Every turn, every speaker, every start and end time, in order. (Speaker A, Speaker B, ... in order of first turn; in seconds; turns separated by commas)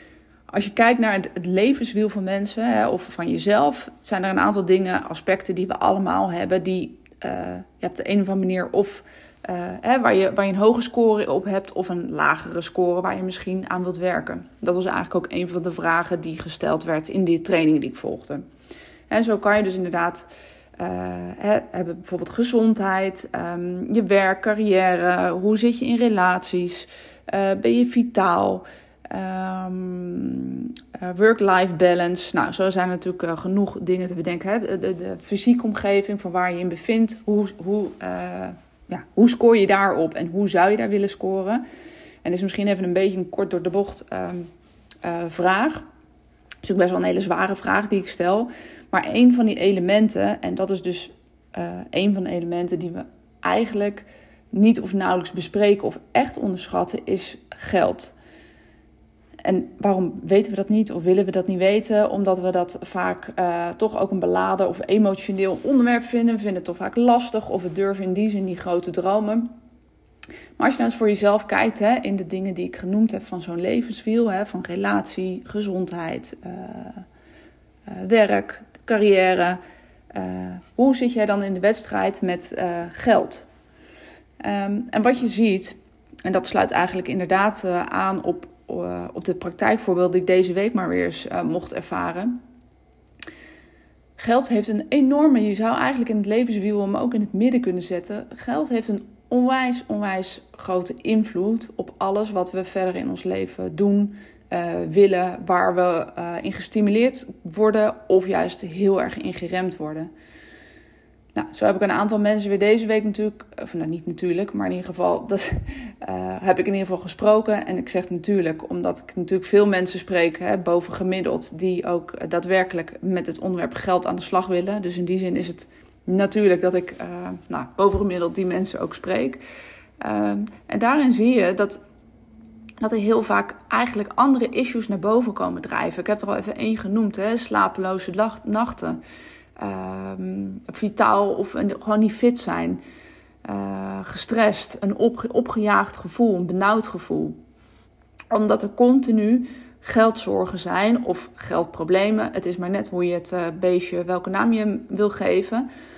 Speaker A: 0.5-18.4, Speaker A: 19.1-41.6, Speaker A: 42.2-44.5, Speaker A: 45.0-45.9, Speaker A: 46.6-58.1, Speaker A: 59.4-69.5, Speaker A: 70.6-77.0, Speaker A: 77.9-79.6, Speaker A: 80.1-83.5, Speaker A: 84.4-92.3, Speaker A: 94.2-110.1, Speaker A: 111.3-129.4, Speaker A: 130.0-131.8, Speaker A: 132.8-139.0, Speaker A: 139.6-142.8, Speaker A: 143.4-147.4, Speaker A: 148.3-155.7